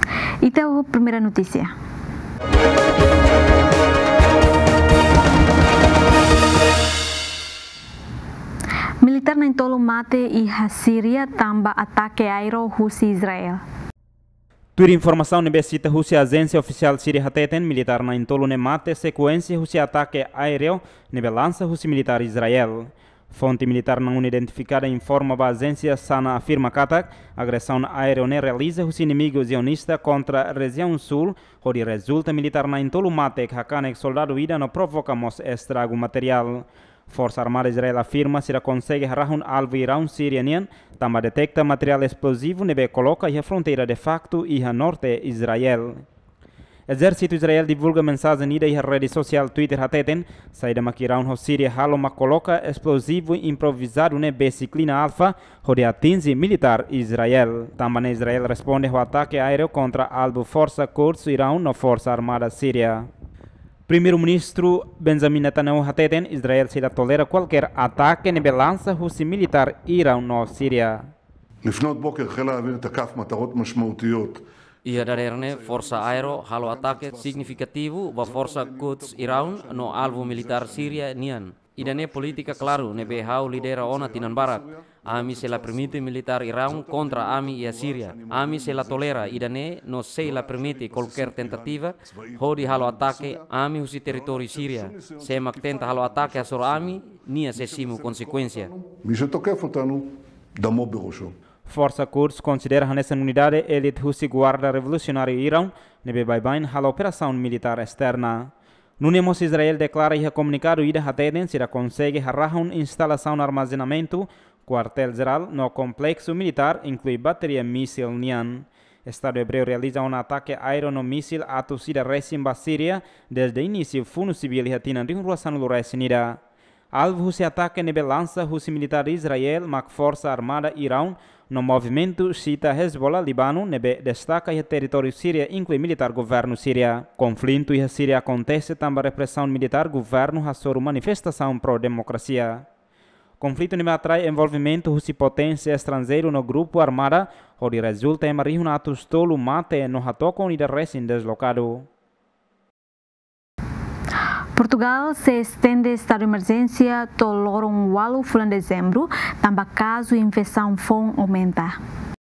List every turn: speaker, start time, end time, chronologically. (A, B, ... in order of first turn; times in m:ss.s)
0:00.4-0:01.7 A
0:09.0-0:13.6 A
0:14.8-0:46.0 B
0:46.9-1:03.1 B
1:03.9-1:11.1 B
1:11.6-1:21.1 C
1:14.8-1:38.7 D
1:21.8-1:29.5 C
1:30.2-1:33.5 C
1:34.0-1:41.3 C
1:41.7-2:06.4 B
2:06.9-2:22.6 B
2:23.4-2:31.9 B
2:34.6-2:41.8 A